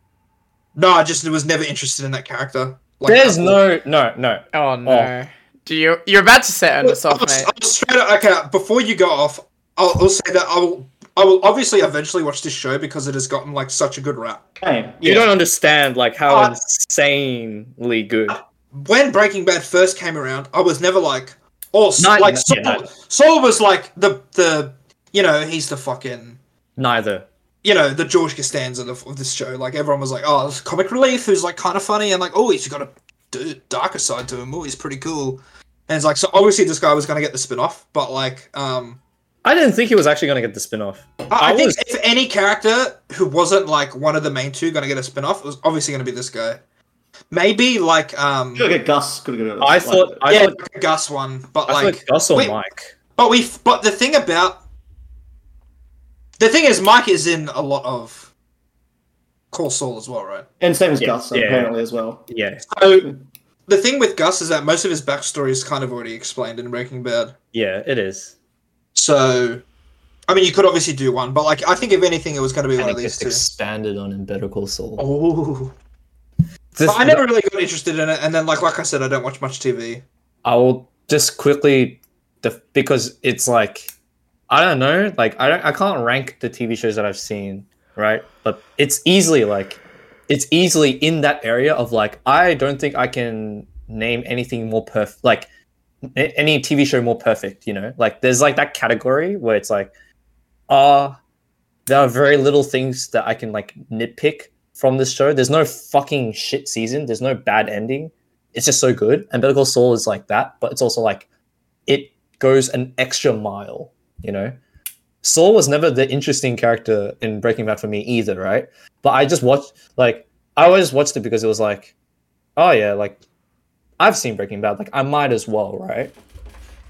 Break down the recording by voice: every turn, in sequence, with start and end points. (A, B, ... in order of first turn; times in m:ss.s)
0:00.8-0:03.6 A
0:03.1-0:05.1 B
0:04.5-0:07.5 C
0:06.8-0:14.4 A
0:14.6-0:15.3 D
0:15.0-0:18.4 B
0:16.3-0:16.6 A
0:18.3-0:26.4 A
0:22.0-0:22.9 B
0:26.8-0:27.3 B
0:27.6-0:39.0 A
0:39.4-0:41.8 B
0:41.3-0:46.6 A
0:47.3-0:48.7 A
0:48.6-0:50.3 D
0:49.6-0:50.6 B
0:50.3-0:52.6 A
0:51.7-0:52.9 B
0:53.2-0:54.6 A
0:56.4-0:58.3 A
0:59.5-1:00.5 A
1:00.6-1:02.3 D
1:01.0-1:01.7 B
1:02.3-1:02.7 B
1:02.7-1:03.1 A
1:03.7-1:07.4 A
1:07.5-1:08.3 B
1:09.0-1:09.6 A
1:10.3-1:13.4 A
1:12.8-1:15.0 B
1:15.0-1:15.7 A
1:16.8-1:17.2 B
1:16.8-1:20.0 A
1:20.4-1:23.9 B
1:24.5-1:35.5 B
1:36.1-1:39.9 B
1:40.7-1:41.2 B
1:41.9-1:51.3 B
1:51.9-1:54.6 B
1:55.2-2:01.9 B
2:02.6-2:03.2 B
2:04.0-2:06.1 B